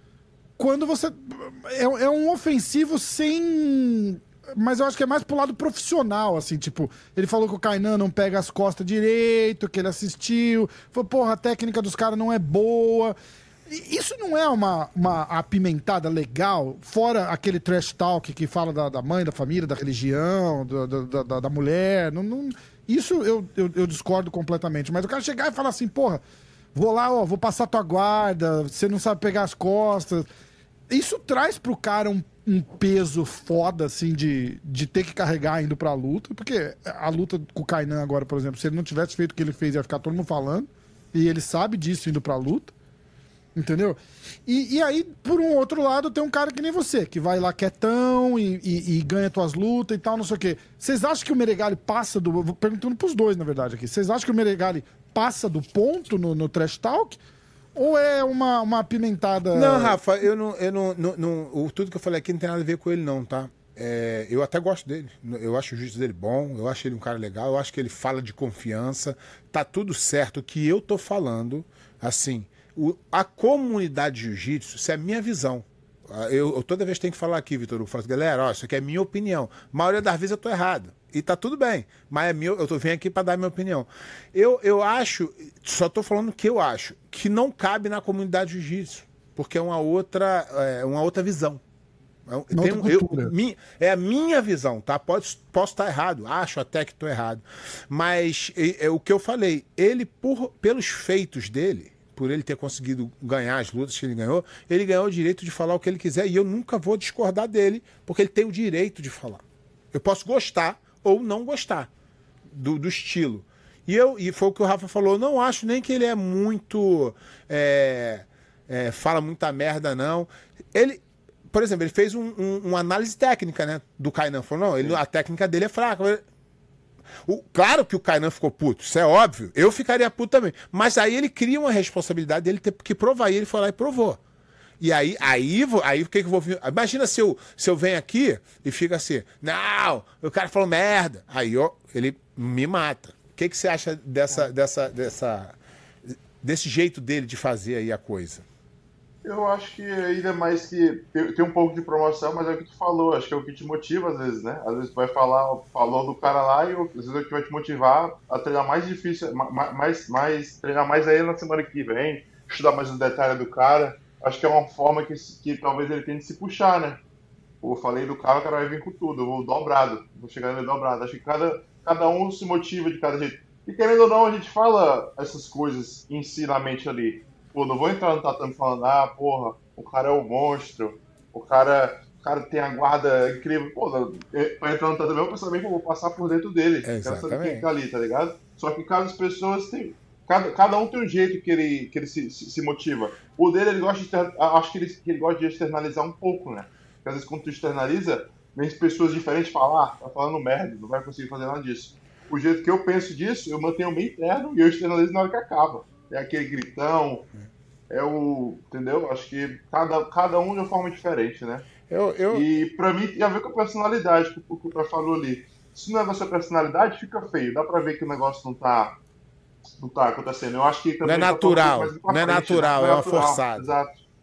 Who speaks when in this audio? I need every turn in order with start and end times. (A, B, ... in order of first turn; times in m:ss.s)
0:00.6-0:13.2 A
0:13.7-0:26.2 A
0:26.7-0:30.3 A
0:30.9-0:42.7 A
0:43.6-0:57.2 A
0:57.8-1:00.0 A
0:59.5-1:31.6 B
1:32.3-1:49.4 B
1:32.5-1:33.3 A
1:49.9-1:51.9 B
1:52.5-2:06.2 B
2:07.2-2:14.2 B
2:14.8-2:25.6 B
2:26.4-2:28.4 B
2:29.2-2:47.0 C
2:47.6-3:27.3 C
3:06.8-3:07.6 B
3:27.9-3:31.7 C
3:31.9-3:32.5 B
3:32.3-3:38.9 C
3:39.8-3:43.9 C
3:41.0-3:43.7 B